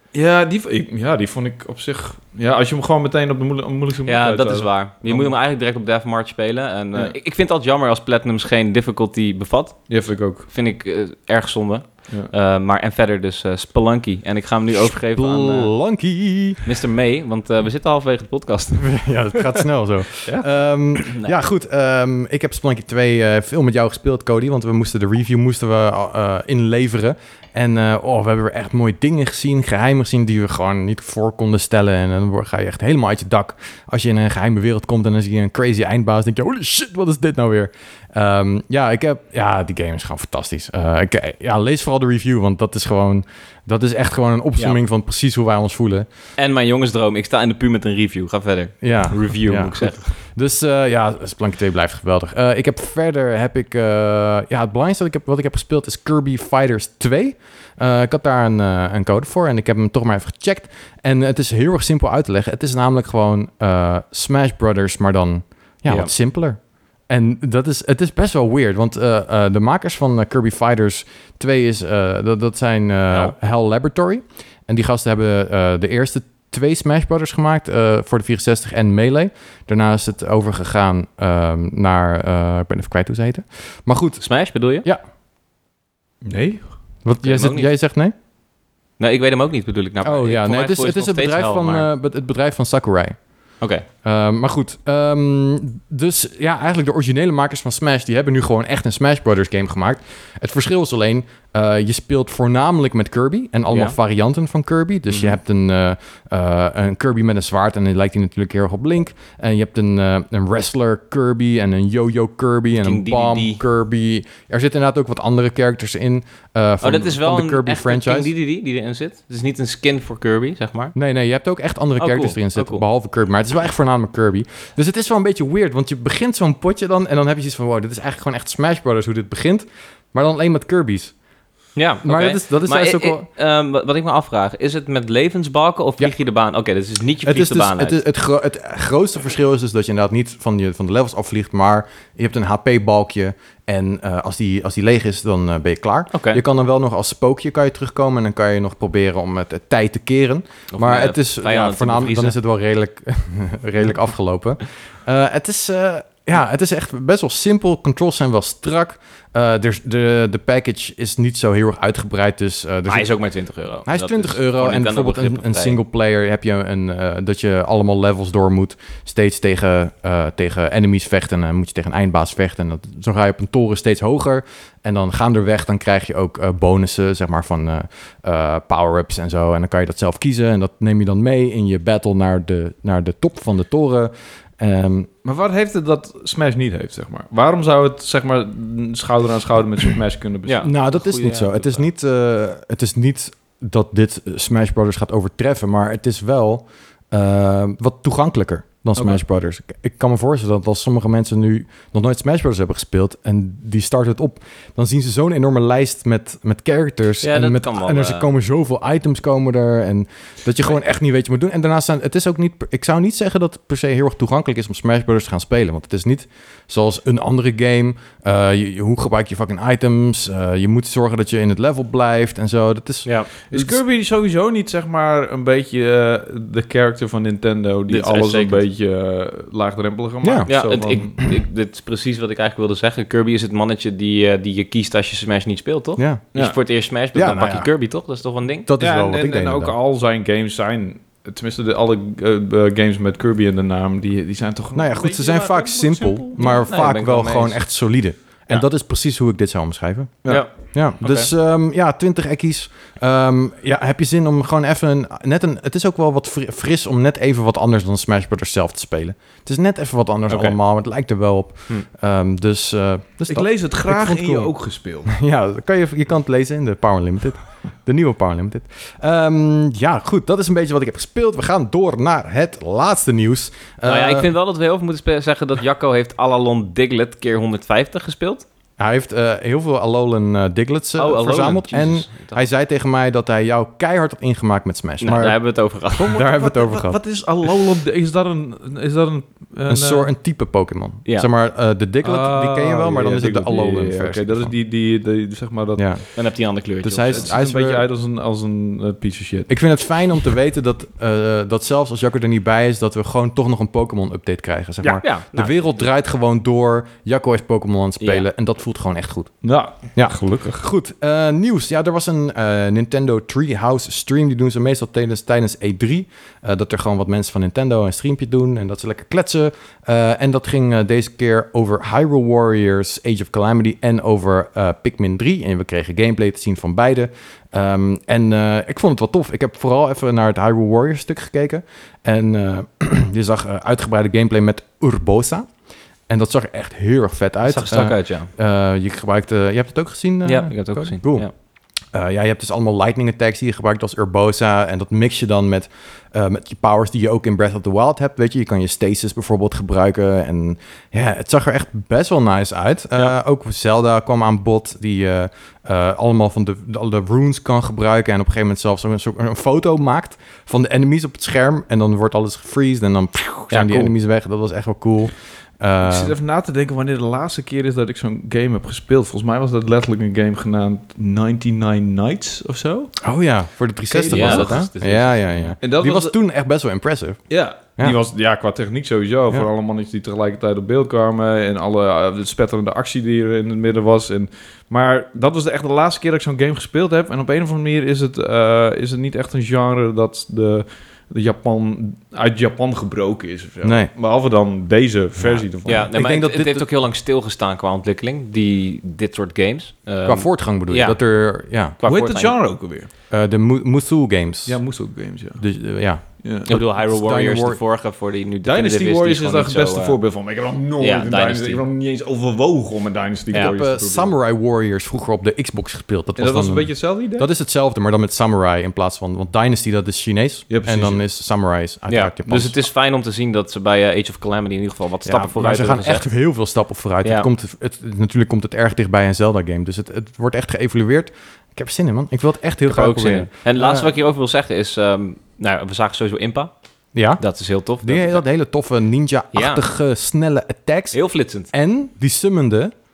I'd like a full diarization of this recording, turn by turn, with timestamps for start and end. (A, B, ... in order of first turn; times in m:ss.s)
0:00.1-0:05.3 A
0:04.0-0:15.7 B
0:09.9-0:10.5 A
0:14.7-0:16.6 C
0:16.6-0:19.4 B
0:18.8-0:46.0 C
0:21.0-0:21.3 B
0:46.4-0:50.1 B
0:48.8-1:24.2 C
1:24.2-1:24.9 B
1:26.2-1:26.6 A
1:27.0-1:28.1 C
1:27.2-1:27.7 B
1:29.0-1:31.9 B
1:30.0-1:33.2 C
1:33.6-1:33.9 B
1:34.0-1:58.3 C
1:45.1-1:45.4 B
1:52.8-1:53.6 B
1:56.8-2:00.9 B
2:00.9-2:11.1 C
2:02.0-2:02.8 B
2:11.8-2:18.0 B
2:12.0-2:13.2 C
2:17.2-2:43.1 C
2:26.1-2:26.4 B
2:30.7-2:32.4 B
2:42.9-2:45.8 B
2:43.9-3:05.1 C
3:05.2-3:10.7 A
3:10.4-3:11.9 B
3:10.6-3:43.8 C
3:27.2-3:28.3 B
3:43.5-3:51.1 A
3:47.9-3:48.6 B
3:50.2-3:50.5 C
3:50.4-3:58.7 B
3:56.0-3:56.2 C
3:57.1-3:57.7 C
3:58.7-3:59.7 C
3:58.8-4:06.6 A
4:04.7-4:24.5 C
4:06.4-4:07.6 B
4:10.2-4:11.3 B
4:20.3-4:20.5 A
4:23.3-4:25.1 A
4:25.1-4:34.3 C
4:33.8-4:38.4 B
4:38.8-4:45.4 C
4:41.0-4:42.4 B
4:45.0-4:46.2 B
4:46.0-4:47.0 C
4:46.0-4:50.1 A
4:49.7-4:54.5 C
4:52.0-4:55.9 A
4:55.8-4:56.1 C
4:56.2-4:57.3 B
4:56.8-4:57.8 C
4:57.1-4:59.5 A
4:59.5-5:09.3 C
5:04.8-5:05.8 B
5:08.0-5:08.2 B
5:09.4-5:10.6 A
5:09.9-5:35.5 C
5:36.1-5:41.3 C
5:37.4-5:38.3 B
5:40.2-5:41.3 B
5:41.9-6:06.1 C
6:03.5-6:03.9 B
6:05.8-6:12.9 A
6:13.0-6:17.2 C
6:13.9-6:14.6 A
6:14.1-6:15.5 B
6:15.6-6:16.1 A
6:17.3-6:35.8 A
6:33.6-6:33.9 C
6:35.2-6:36.7 C
6:35.6-6:41.0 B
6:40.0-6:41.8 C
6:41.8-6:42.3 B
6:41.9-6:42.9 A
6:43.1-6:44.6 C
6:44.5-6:45.4 A
6:45.4-6:47.6 C
6:46.2-6:46.5 A
6:46.4-6:50.0 B
6:48.4-6:54.1 A
6:50.8-6:51.6 B
6:53.3-7:02.5 C
6:56.2-6:57.3 A
7:00.5-7:01.0 A
7:01.9-7:06.0 B
7:05.0-7:13.9 C
7:12.7-7:16.5 B
7:16.9-7:17.2 C
7:17.2-7:18.2 B
7:17.8-7:21.0 C
7:19.3-7:19.6 B
7:20.9-7:21.5 B
7:21.5-7:22.7 C